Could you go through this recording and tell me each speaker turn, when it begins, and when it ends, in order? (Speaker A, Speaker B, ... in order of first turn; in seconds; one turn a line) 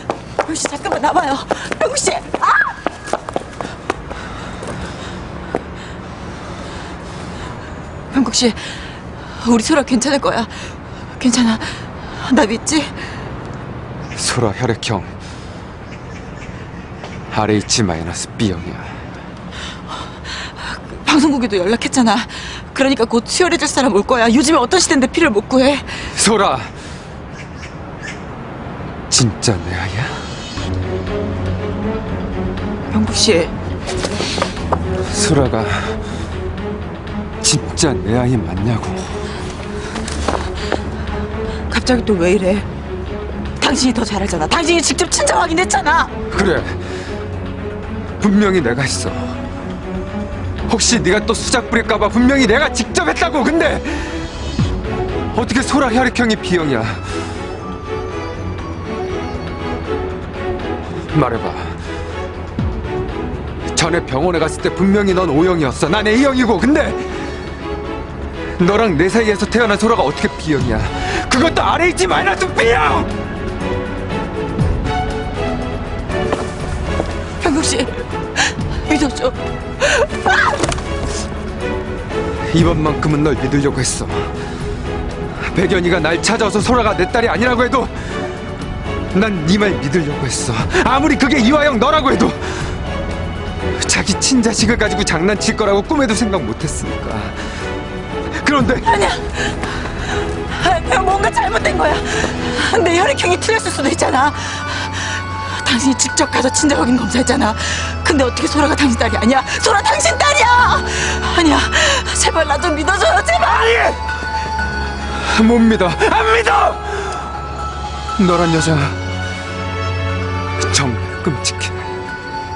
Speaker A: 0.4-2.8
Speaker A: 8.1-10.6
Speaker A: 11.2-13.0
Speaker B: 14.2-15.1
Speaker B: 17.3-18.9
Speaker A: 20.3-26.1
Speaker B: 26.1-26.7
Speaker B: 29.1-30.2
Speaker A: 32.9-33.5
Speaker B: 35.0-36.0
Speaker B: 37.4-39.1
Speaker A: 41.7-42.7
Speaker A: 43.6-46.1
Speaker B: 46.3-46.8
Speaker B: 48.2-49.3
Speaker B: 50.7-54.2
Speaker B: 55.3-57.0
Speaker B: 61.1-61.8
Speaker B: 63.7-67.1
Speaker B: 68.6-73.1
Speaker A: 77.4-80.6
Speaker B: 82.5-84.3
Speaker B: 85.4-88.0
Speaker B: 89.1-92.6
Speaker B: 93.8-97.4
Speaker B: 98.4-98.9
Speaker A: 98.8-99.7
Speaker A: 100.4-113.8
Speaker B: 113.5-114.0
Speaker B: 115.1-117.3
Speaker B: 118.2-119.0
Speaker B: 120.6-121.9